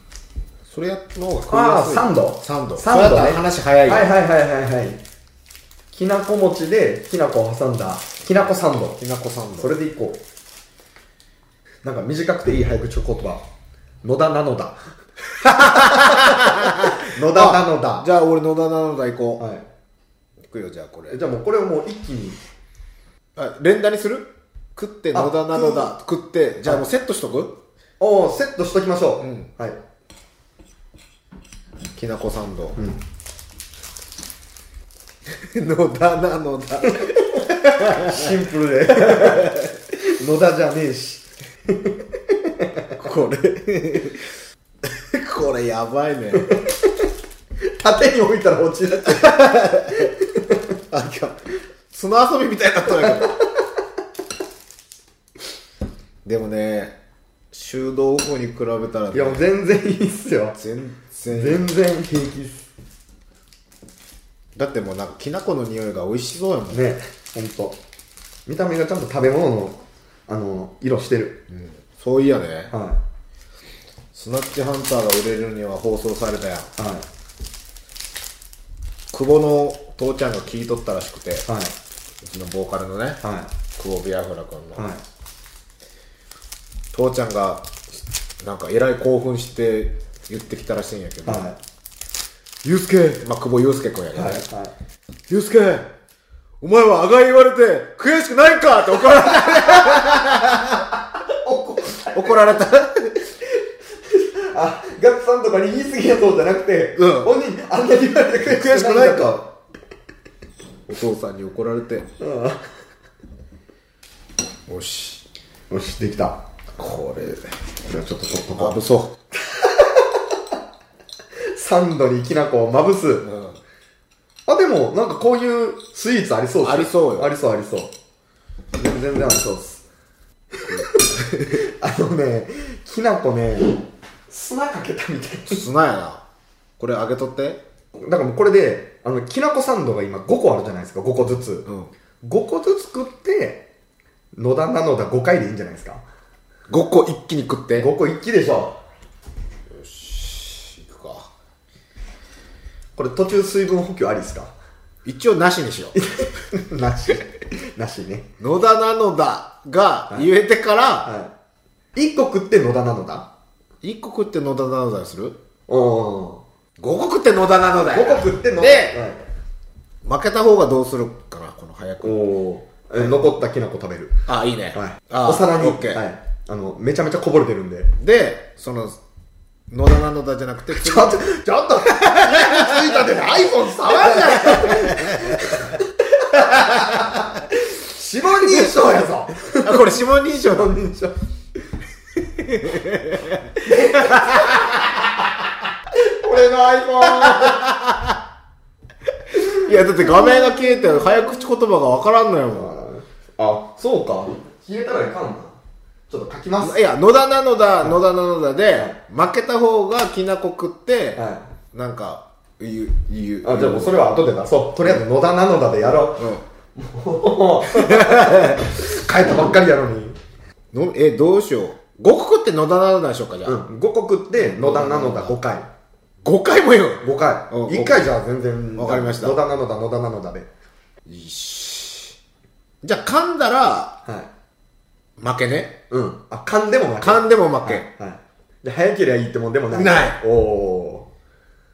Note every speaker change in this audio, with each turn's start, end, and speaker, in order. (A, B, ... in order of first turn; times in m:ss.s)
0:00.7-0:04.1 A
0:01.5-0:05.0 B
0:05.9-0:09.0 B
0:09.0-0:09.7 A
0:09.6-0:10.2 B
0:11.8-0:13.4 B
0:14.0-0:14.8 B
0:15.4-0:19.4 A
0:15.5-0:18.1 B
0:19.4-0:19.7 B
0:20.4-0:21.2 A
0:21.1-0:22.4 B
0:23.4-0:27.6 A
0:25.1-0:25.9 B
0:28.0-0:29.8 B
0:29.2-0:29.5 A
0:32.0-0:32.8 A
0:32.8-0:33.0 B
0:35.3-0:38.3 A
0:36.8-0:43.0 B
0:39.0-0:39.7 A
0:43.0-0:44.3 A
0:44.8-0:46.5 A
0:46.3-0:46.9 B
0:47.6-0:50.6 B
0:49.1-0:50.1 A
0:50.9-0:51.4 A
0:51.9-0:53.4 A
0:53.0-0:53.6 B
0:56.2-0:57.0 A
0:57.5-0:59.4 A
0:59.1-1:00.6 B
1:00.6-1:01.7 A
1:01.3-1:02.7 B
1:04.6-1:06.8 A
1:06.7-1:07.8 B
1:08.5-1:11.4 B
1:11.5-1:12.7 A
1:12.7-1:13.0 B
1:14.1-1:16.7 A
1:16.8-1:17.1 B
1:19.1-1:21.5 A
1:21.5-1:21.7 B
1:22.2-1:23.2 A
1:23.2-1:23.5 B
1:23.8-1:24.9 A
1:24.8-1:25.0 B
1:26.9-1:31.5 A
1:31.2-1:31.6 B
1:32.6-1:34.4 A
1:34.1-1:34.7 B
1:35.3-1:35.9 A
1:36.6-1:40.8 A
1:39.4-1:40.7 B
1:41.2-1:42.5 B
1:42.1-1:43.2 A
1:43.4-1:49.5 B
1:47.0-1:47.3 A
1:48.4-1:49.4 A
1:50.9-1:52.1 A
1:52.2-1:52.6 B
1:54.7-1:55.2 A
1:55.7-1:56.4 B
1:56.8-1:57.5 A
1:57.8-1:58.8 B
1:58.6-1:59.2 A
1:59.3-2:00.2 B
2:01.4-2:03.3 B
2:03.2-2:03.6 A
2:04.5-2:07.9 B
2:06.6-2:07.3 A
2:08.8-2:09.8 B
2:10.6-2:15.6 B
2:10.7-2:11.6 A
2:15.5-2:16.2 A
2:16.8-2:17.6 A
2:18.0-2:21.7 B
2:22.2-2:23.7 B
2:24.4-2:26.0 B
2:26.7-2:27.9 A
2:27.8-2:28.8 B
2:29.7-2:31.3 A
2:33.0-2:34.5 B
2:35.0-2:36.0 A
2:36.0-2:38.3 B
2:38.4-2:41.1 A
2:41.0-2:41.3 B
2:42.0-2:43.3 B
2:43.8-2:45.4 A
2:45.7-2:46.4 B
2:46.8-2:49.0 A
2:47.8-2:49.2 B
2:50.0-2:52.2 A
2:52.0-2:54.2 B
2:54.3-2:56.0 A
2:54.7-2:57.9 B
2:58.0-2:59.0 A
2:59.7-3:01.3 A
3:00.7-3:11.2 B
3:01.8-3:03.2 A
3:03.8-3:05.6 A
3:06.4-3:07.2 A
3:08.4-3:08.8 A
3:09.6-3:10.7 A
3:12.4-3:14.8 A
3:13.6-3:15.2 B
3:15.9-3:17.7 B
3:17.0-3:18.2 A
3:19.4-3:21.0 B
3:19.5-3:22.8 A
3:22.5-3:25.6 B
3:26.1-3:26.8 B
3:26.6-3:31.2 A
3:31.2-3:31.5 B
3:31.7-3:34.0 A
3:33.4-3:40.2 B
3:36.2-3:36.4 A
3:37.7-3:38.6 A
3:40.7-3:43.6 A
3:43.4-3:45.7 B
3:44.4-3:45.4 A
3:46.2-3:48.1 A
3:47.0-3:50.5 B
3:48.8-3:49.4 A
3:51.1-3:52.2 A
3:52.8-3:54.0 A
3:54.0-3:54.3 B
3:55.2-3:55.8 A
3:55.9-4:01.1 B
3:57.0-3:57.9 A
3:59.7-4:00.2 A